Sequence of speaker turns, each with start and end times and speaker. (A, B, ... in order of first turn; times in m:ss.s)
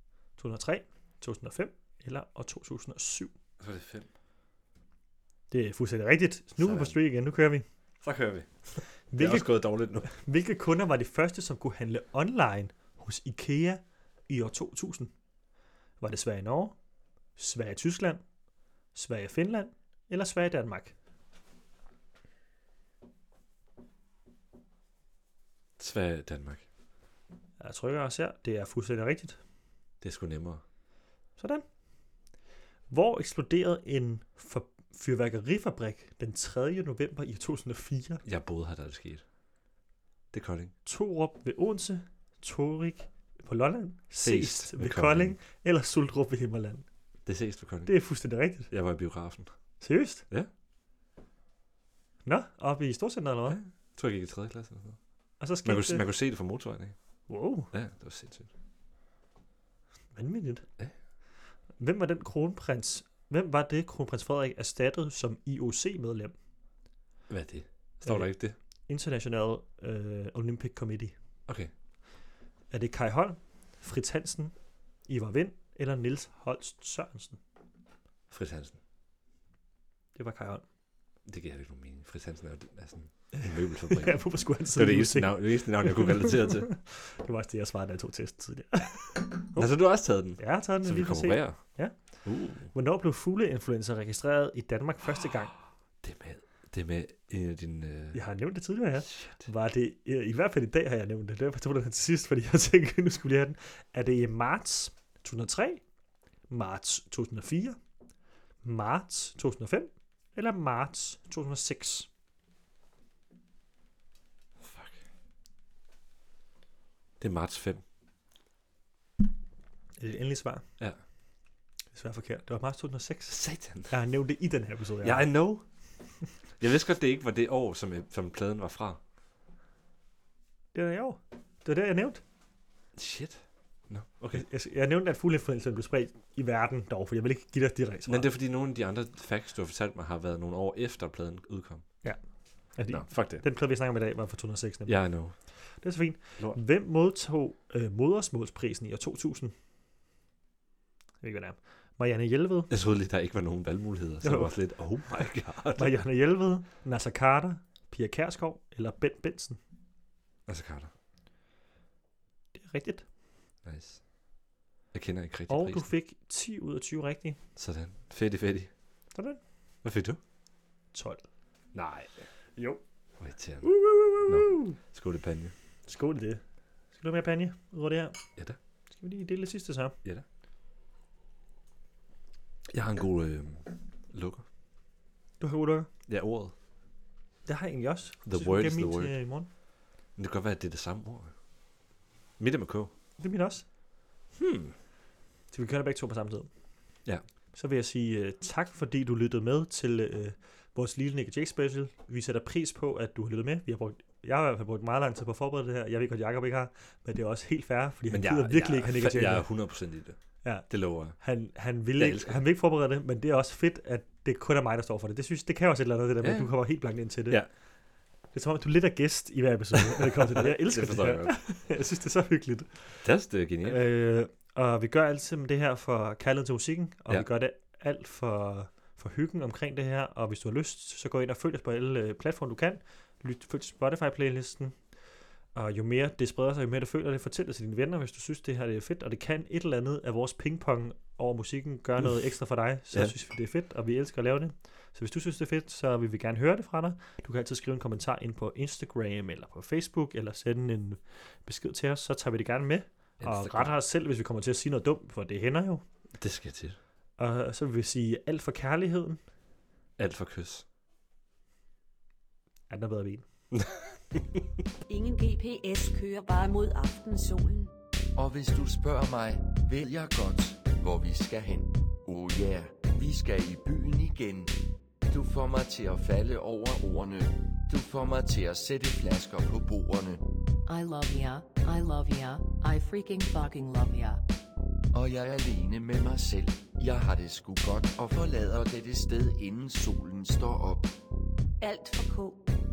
0:00.4-0:03.3 A
0:03.6-0:04.1 B
0:05.5-0:07.6 A
0:06.6-0:07.0 B
0:08.0-0:10.1 B
0:09.1-0:15.1 A
0:16.0-0:16.8 A
0:17.4-0:18.2 A
0:18.9-0:20.9 A
0:25.8-0:26.6 B
0:27.6-0:29.4 A
0:30.0-0:30.6 B
0:31.4-0:31.6 A
0:32.9-0:38.2 A
0:38.2-0:39.2 B
0:40.3-0:40.7 B
0:40.8-0:46.8 A
0:44.2-0:45.4 B
0:47.2-0:48.0 B
0:47.8-0:48.7 A
0:48.7-0:49.5 B
0:49.8-0:50.2 A
0:52.2-0:53.6 A
0:53.5-0:55.0 B
0:55.4-0:56.0 A
0:55.6-0:57.0 B
0:57.3-0:57.7 A
0:57.7-0:58.5 B
1:00.1-1:00.6 A
1:01.8-1:06.3 A
1:07.3-1:08.6 B
1:08.0-1:08.3 A
1:08.9-1:11.1 A
1:12.7-1:14.5 A
1:15.0-1:17.4 A
1:18.3-1:18.8 B
1:20.1-1:20.6 A
1:21.2-1:26.7 B
1:23.3-1:29.7 A
1:28.8-1:31.6 B
1:30.4-1:31.9 A
1:32.2-1:32.7 B
1:32.6-1:35.5 A
1:36.0-1:38.2 B
1:38.1-1:45.8 A
1:39.1-1:39.4 B
1:46.5-1:47.8 A
1:48.6-1:52.1 A
1:54.6-1:55.0 B
1:57.2-1:57.8 B
2:00.0-2:00.6 A
2:01.9-2:05.3 A
2:03.3-2:03.9 B
2:05.0-2:05.6 B
2:06.6-2:09.0 B
2:10.7-2:12.2 A
2:13.0-2:14.4 B
2:14.3-2:18.3 A
2:18.1-2:22.0 B
2:22.0-2:25.0 A
2:22.9-2:23.4 B
2:24.8-2:25.4 B
2:25.6-2:29.5 A
2:31.2-2:32.7 A
2:32.7-2:35.9 B
2:34.2-2:34.5 A
2:35.7-2:39.6 A
2:40.5-2:40.9 B
2:42.5-2:43.0 A
2:43.6-2:44.0 B
2:44.9-2:45.9 B
2:45.5-2:47.4 A
2:47.6-2:48.7 B
2:49.1-2:49.4 A
2:49.8-2:50.2 B
2:50.9-2:51.2 A
2:51.7-2:52.2 B
2:52.6-2:52.8 A
2:53.2-2:55.5 B
2:53.6-2:54.8 A
2:55.8-2:58.2 A
2:58.9-3:00.0 A
3:02.7-3:04.4 B
3:05.4-3:05.9 A
3:06.1-3:06.5 B
3:07.4-3:09.5 A
3:08.2-3:09.2 B
3:10.2-3:11.3 B
3:12.4-3:12.9 B
3:13.2-3:13.6 A
3:14.3-3:14.7 B
3:15.5-3:16.5 A
3:17.5-3:29.5 A
3:28.1-3:31.2 B
3:30.4-3:37.4 A
3:32.0-3:32.4 B
3:36.2-3:36.5 B
3:38.3-3:43.0 A
3:39.7-3:41.4 B
3:43.0-3:43.8 B
3:43.6-3:54.8 A
3:55.5-4:15.8 A
4:13.2-4:13.7 B
4:16.2-4:16.8 B
4:17.2-4:19.2 A
4:20.0-4:20.6 B
4:22.7-4:23.2 A
4:23.5-4:24.4 B
4:24.9-4:27.7 C
4:28.2-4:34.6 D
4:35.1-4:40.2 D
4:40.7-4:44.2 E
4:44.9-4:50.9 D
4:51.6-4:52.5 C